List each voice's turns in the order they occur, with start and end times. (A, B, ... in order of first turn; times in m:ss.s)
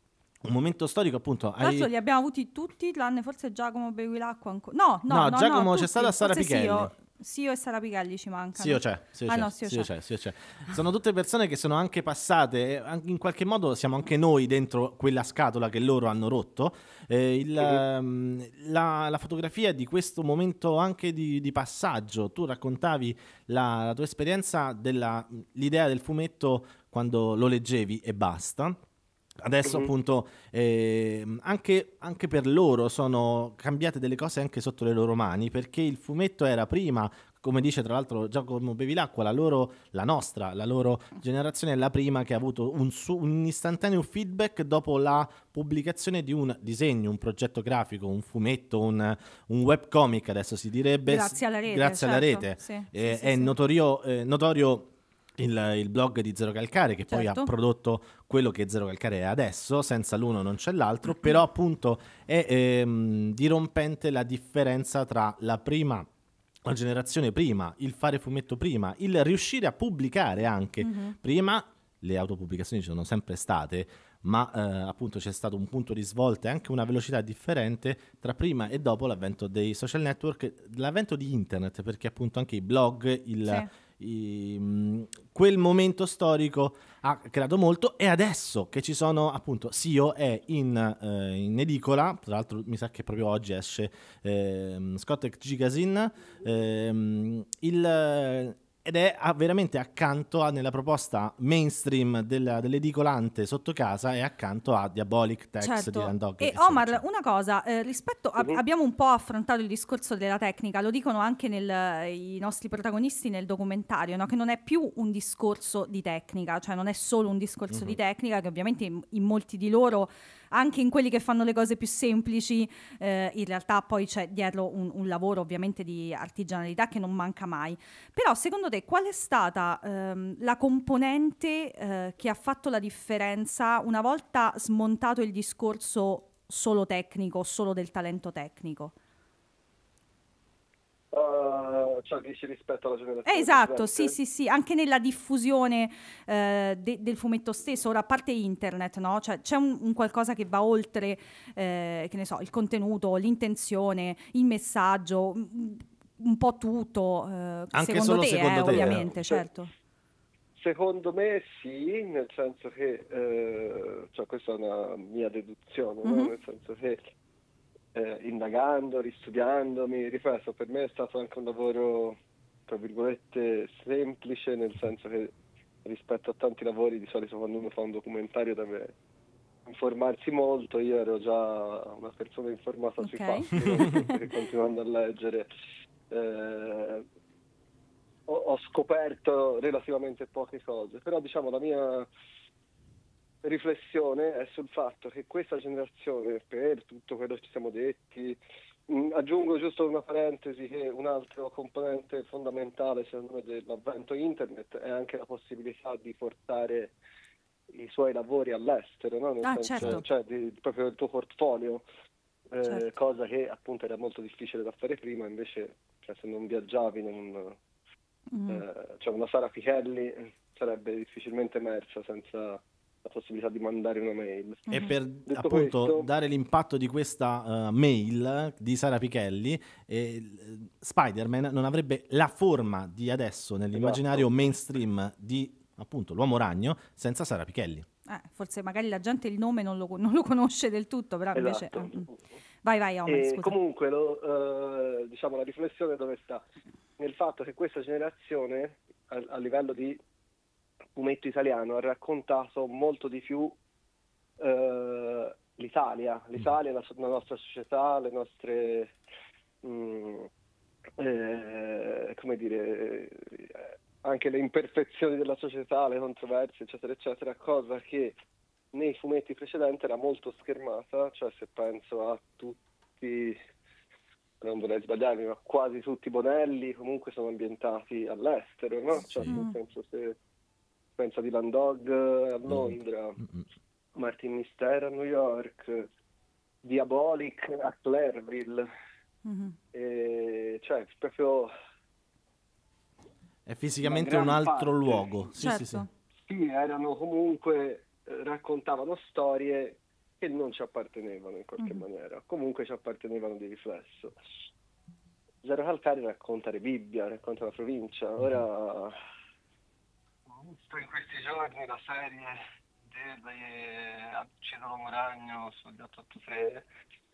0:00.4-0:01.9 A
0:01.6-0:09.9 B
0:05.1-0:06.9 A
0:08.6-0:28.8 A
0:17.6-0:17.8 C
0:29.4-1:06.1 A
0:29.6-0:29.9 C
0:51.1-0:53.5 B
0:57.1-0:57.5 B
1:06.7-1:47.0 A
1:10.8-1:11.1 B
1:45.6-2:18.9 B
1:57.7-1:58.0 A
2:21.1-2:24.2 C
2:23.3-2:39.7 B
2:37.7-2:39.1 A
2:38.7-2:39.7 C
2:40.6-2:47.0 C
2:46.0-2:46.3 B
2:47.9-2:55.3 C
2:55.8-2:58.9 C
2:59.7-3:05.5 C
3:03.0-3:04.2 B
3:06.1-3:07.0 C
3:08.3-3:12.1 C
3:13.4-3:27.0 C
3:27.7-3:31.8 C
3:29.4-3:30.0 B
3:29.8-3:30.0 A
3:32.5-3:37.6 C
3:38.3-3:38.6 B
3:38.5-3:46.1 C
3:44.7-3:57.8 A
3:53.8-3:54.5 C
3:58.1-4:02.1 B
4:01.3-4:02.2 C
4:02.6-4:03.6 B
4:03.1-4:06.4 C
4:07.0-4:10.0 C
4:11.0-4:13.6 C
4:14.4-4:18.9 C
4:19.6-4:20.3 C
4:21.0-4:28.2 C
4:28.7-4:33.4 C
4:34.4-4:40.2 C
4:39.0-4:39.4 A
4:39.3-4:39.5 B
4:41.0-4:43.2 C
4:42.5-4:43.4 A
4:44.0-4:45.9 C
4:46.6-4:48.7 C
4:49.2-4:49.6 B
4:49.7-4:51.5 C
4:53.5-4:55.8 A
4:53.8-4:55.4 C
4:55.4-4:55.9 B
4:56.2-5:04.1 C
5:05.4-5:09.0 C
5:10.3-5:12.4 C
5:12.9-5:16.7 C